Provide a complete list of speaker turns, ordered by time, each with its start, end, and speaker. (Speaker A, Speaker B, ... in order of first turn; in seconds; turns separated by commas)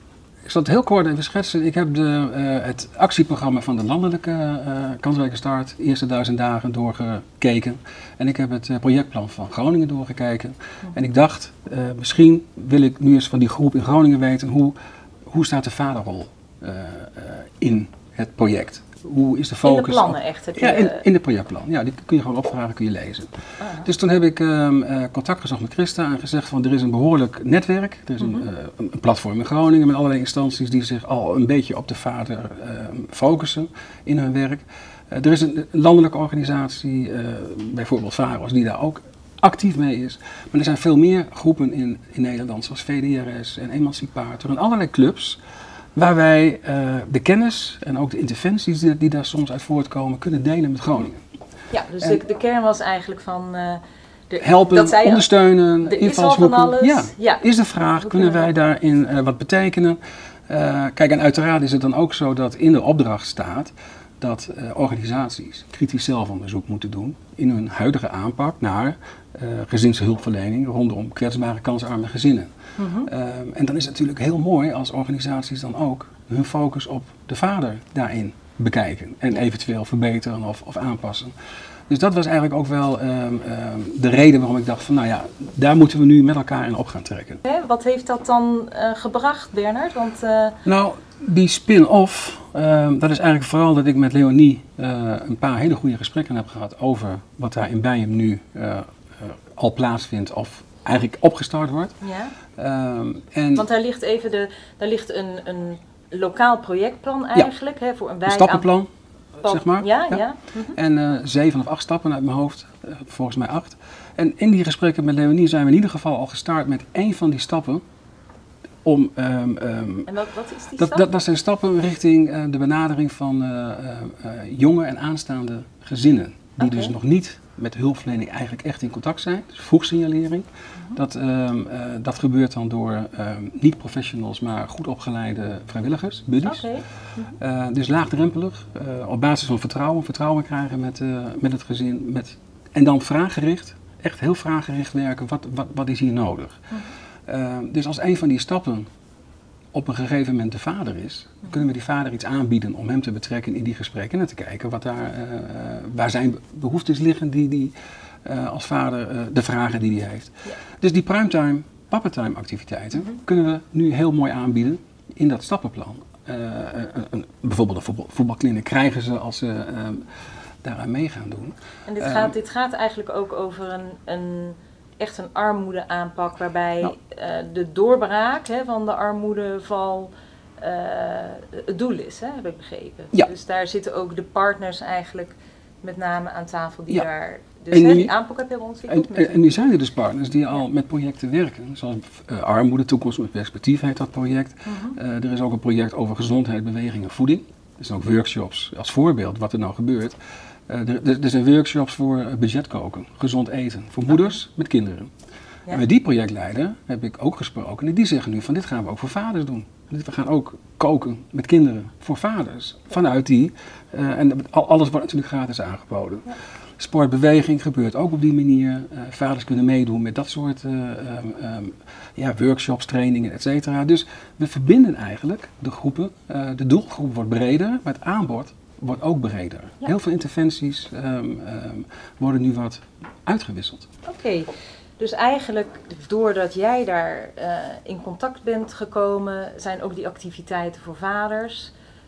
Speaker A: 0.4-14.8, Speaker A: 15.3-45.4, Speaker B: 19.6-21.0, Speaker B: 23.6-23.9, Speaker B: 28.2-28.4, Speaker A: 46.0-51.2, Speaker B: 51.7-55.3, Speaker A: 54.4-81.3, Speaker B: 55.8-57.4, Speaker B: 58.0-58.5, Speaker B: 72.8-73.1, Speaker A: 81.9-87.4, Speaker B: 87.4-90.6, Speaker A: 90.6-101.9, Speaker B: 102.0-102.3, Speaker A: 102.6-103.7, Speaker B: 103.5-108.7, Speaker A: 108.2-108.9, Speaker A: 109.4-110.2, Speaker B: 109.4-110.8, Speaker A: 110.8-117.8, Speaker A: 118.8-120.1, Speaker B: 120.1-121.1, Speaker A: 120.8-136.7, Speaker B: 126.6-126.9, Speaker B: 136.4-137.3, Speaker A: 137.4-146.6, Speaker A: 147.3-148.9, Speaker A: 149.7-157.7, Speaker A: 158.2-170.1, Speaker A: 170.6-172.3, Speaker B: 171.9-189.5, Speaker A: 187.7-188.1, Speaker A: 188.9-200.2, Speaker B: 194.7-194.9, Speaker A: 200.7-205.1, Speaker A: 205.7-233.9, Speaker B: 234.1-241.7